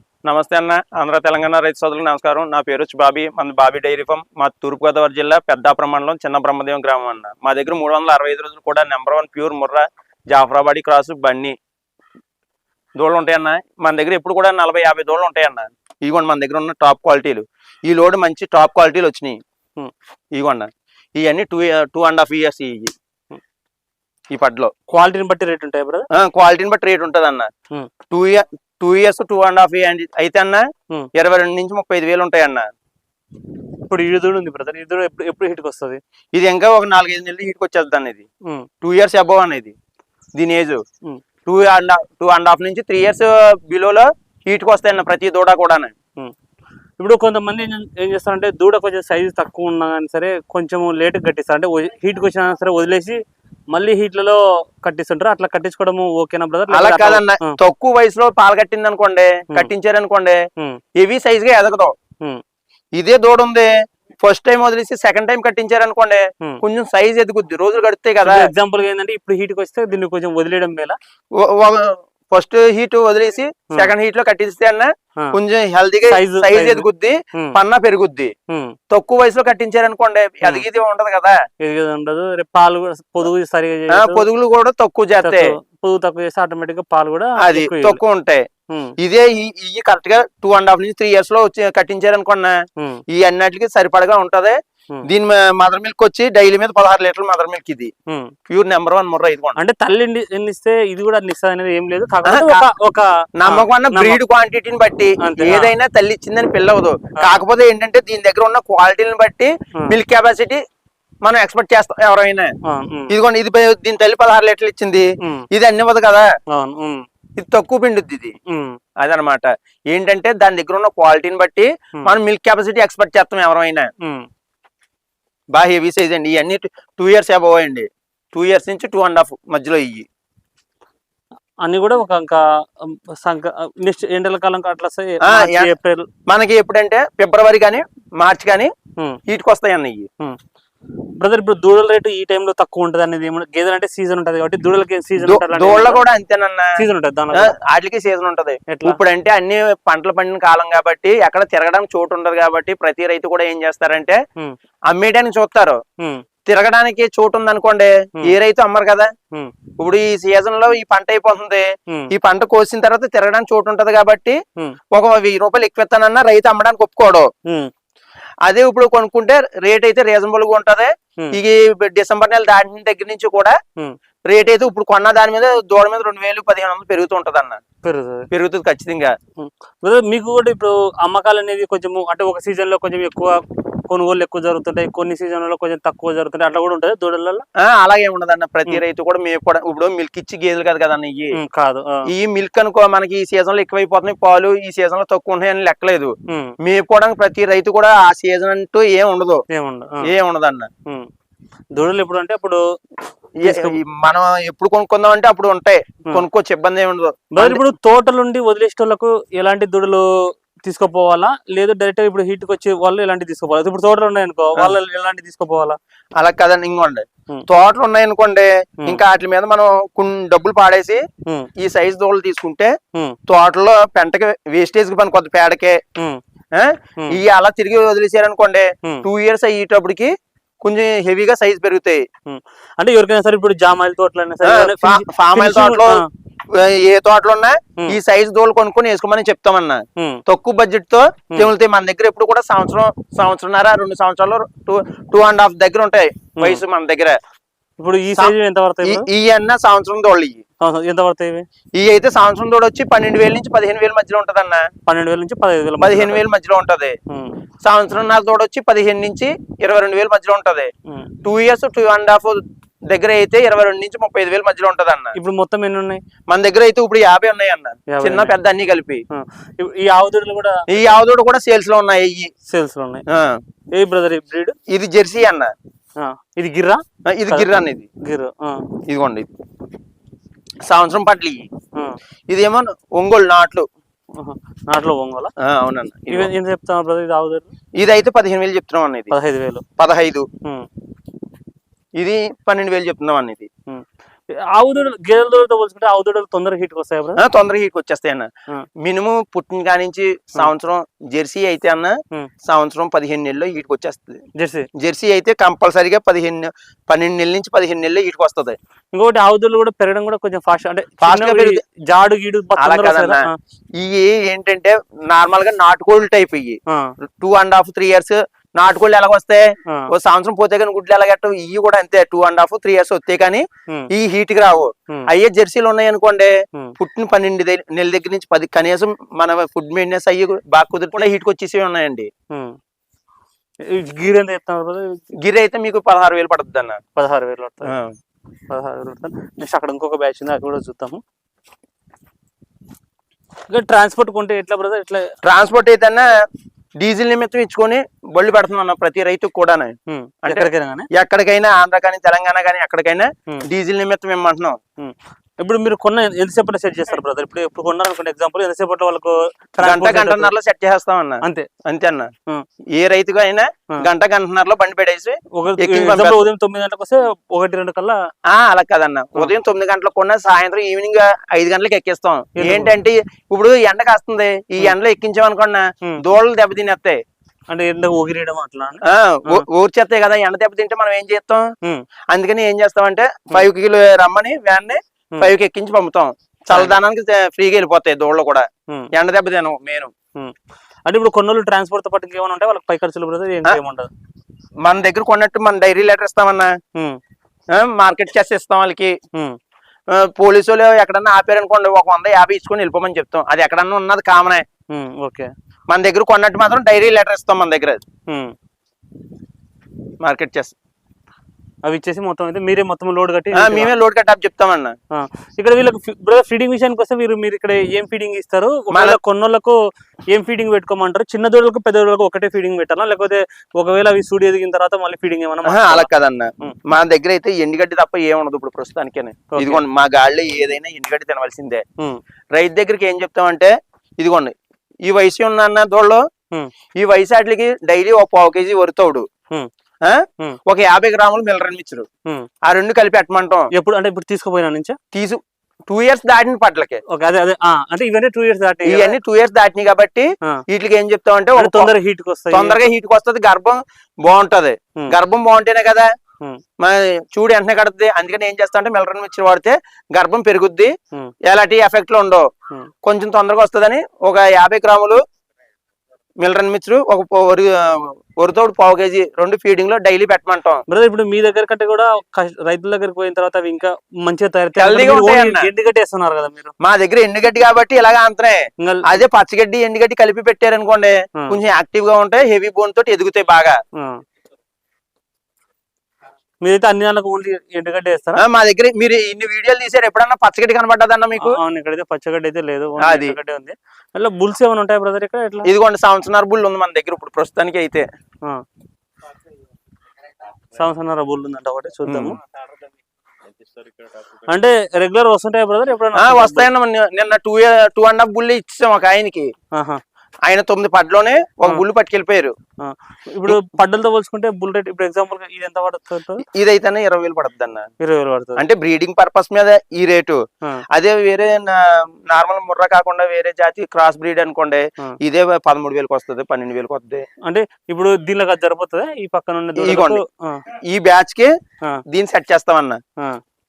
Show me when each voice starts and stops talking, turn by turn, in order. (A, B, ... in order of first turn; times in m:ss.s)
0:00.2-0:11.6 A
0:13.0-0:19.4 A
0:20.4-0:22.9 A
0:24.3-0:24.7 A
0:24.9-0:26.1 B
0:26.1-0:27.5 A
0:28.1-0:32.7 A
0:33.8-0:36.0 B
0:36.3-0:38.3 A
0:38.8-0:39.7 A
0:40.4-0:40.8 A
0:41.5-0:45.9 A
0:47.0-0:53.2 B
0:53.7-0:57.6 B
0:56.7-1:00.4 A
1:01.0-1:01.9 A
1:03.0-1:08.5 A
1:08.2-1:11.0 B
1:11.4-1:18.3 A
1:16.1-1:17.6 B
1:18.5-1:18.8 B
1:18.9-1:21.4 A
1:21.6-1:24.3 B
1:23.9-1:25.6 A
1:25.2-1:28.0 B
1:27.4-1:28.4 A
1:28.7-1:29.0 B
1:29.0-1:37.9 A
1:38.1-1:38.3 B
1:38.5-1:39.6 A
1:39.6-1:44.2 B
1:42.2-1:42.7 A
1:43.4-1:50.6 A
1:45.2-1:45.7 B
1:51.2-1:52.5 A
1:52.6-1:53.1 B
1:53.1-1:56.3 A
1:56.5-1:57.1 B
1:57.4-1:58.4 A
1:58.5-1:58.8 B
1:59.0-2:03.9 A
2:04.0-2:04.3 B
2:05.5-2:10.1 A
2:11.6-2:16.1 B
2:15.2-2:15.7 A
2:16.3-2:18.7 A
2:19.3-2:20.1 A
2:21.2-2:26.0 B
2:25.2-2:26.8 A
2:26.8-2:27.5 B
2:27.3-2:34.2 A
2:28.7-2:29.0 B
2:34.9-2:35.8 A
2:36.5-2:39.1 A
2:39.8-2:44.4 A
2:44.9-2:47.3 A
2:47.5-2:47.7 B
2:48.4-2:53.6 A
2:54.3-2:57.6 A
2:57.8-2:58.3 B
2:58.3-2:59.1 A
2:59.4-3:07.4 B
3:07.6-3:11.4 A
3:11.3-3:12.1 B
3:12.0-3:19.4 A
3:16.3-3:16.6 B
3:19.5-3:20.1 B
3:20.0-3:20.7 A
3:21.8-3:22.6 B
3:23.4-3:27.6 A
3:23.4-3:23.8 B
3:27.4-3:30.0 B
3:30.6-3:35.8 B
3:36.2-3:41.0 A
3:41.6-3:42.7 A
3:43.3-3:45.8 A
3:46.5-3:50.1 A
3:50.6-3:52.0 A
3:52.3-3:56.1 B
3:54.4-4:07.2 A
4:00.0-4:00.2 B
4:07.8-4:09.1 B
4:08.1-4:10.4 A
4:10.6-4:11.5 B
4:11.8-4:14.7 A
4:14.9-4:16.2 B
4:15.8-4:17.0 A
4:17.1-4:17.4 B
4:17.6-4:20.7 A
4:21.2-4:25.2 A
4:25.2-4:26.0 B
4:26.3-4:29.0 A
4:27.9-4:28.3 B
4:29.1-4:30.9 B
4:30.7-4:32.3 A
4:32.5-4:33.1 B
4:33.1-4:33.4 A
4:33.7-4:34.6 B
4:34.7-4:35.5 A
4:36.0-4:38.7 B
4:37.1-4:37.9 A
4:38.9-4:39.3 A
4:40.7-4:41.5 A
4:42.3-4:43.7 A
4:44.2-4:45.3 B
4:45.4-4:46.3 A
4:46.1-4:47.5 B
4:47.8-4:49.1 A
4:49.1-4:49.6 B
4:49.8-4:50.3 A
4:52.0-4:53.5 A
4:54.5-4:57.2 B
4:57.2-5:04.2 A
5:04.4-5:04.7 B
5:04.8-5:08.6 A
5:08.9-5:13.4 B
5:11.0-5:11.6 A
5:12.6-5:16.6 A
5:16.7-5:16.9 B
5:17.2-5:32.1 A
5:32.3-5:32.6 B
5:33.6-5:35.0 B
5:35.2-5:36.8 A
5:37.0-5:37.7 B
5:37.6-5:37.9 A
5:38.5-5:41.0 B
5:43.5-5:45.1 B
5:45.2-5:46.2 A
5:46.8-5:54.6 A
5:49.9-5:50.9 B
5:54.8-6:00.3 B
5:59.6-6:02.1 A
6:01.2-6:01.5 B
6:02.7-6:06.3 A
6:05.3-6:08.0 B
6:08.3-6:17.0 A
6:12.4-6:12.7 B
6:17.5-6:19.4 B
6:18.8-6:21.5 A
6:22.1-6:29.9 A
6:26.5-6:26.8 B
6:30.9-6:33.9 B
6:34.6-6:36.6 A
6:37.5-6:39.0 A
6:39.9-6:44.4 A
6:44.7-6:45.3 B
6:45.7-6:47.8 A
6:48.1-6:48.4 B
6:50.0-6:50.6 A
6:51.6-6:53.8 B
6:53.3-6:54.8 A
6:54.9-7:05.9 B
6:58.7-6:59.0 A
7:05.4-7:11.6 A
7:09.3-7:09.6 B
7:12.3-7:14.3 A
7:14.8-7:16.0 A
7:16.8-7:19.1 A
7:19.8-7:21.9 A
7:22.4-7:23.5 A
7:23.5-7:24.8 B
7:24.9-7:26.8 A
7:26.9-7:29.0 B
7:28.6-7:31.7 A
7:31.4-7:32.7 B
7:32.3-7:35.9 A
7:36.6-7:40.7 A
7:41.3-7:42.3 A
7:42.8-7:45.0 A
7:46.2-7:50.6 A
7:50.7-7:56.5 B
7:54.6-7:55.5 A
7:56.6-8:03.6 A
7:58.6-7:59.0 B
8:03.8-8:04.0 B
8:06.4-8:08.2 B
8:08.2-8:11.4 A
8:11.2-8:15.5 B
8:12.8-8:13.2 A
8:15.4-8:17.8 A
8:20.6-8:22.2 B
8:21.9-8:22.2 A
8:24.3-8:26.5 B
8:26.0-8:29.3 A
8:29.5-8:29.8 B
8:30.2-8:32.4 A
8:32.6-8:36.2 B
8:36.3-8:37.7 A
8:37.8-8:38.4 B
8:38.4-8:47.0 A
8:47.3-8:50.4 B
8:49.6-8:50.0 A
8:50.6-8:51.3 A
8:51.9-8:52.8 A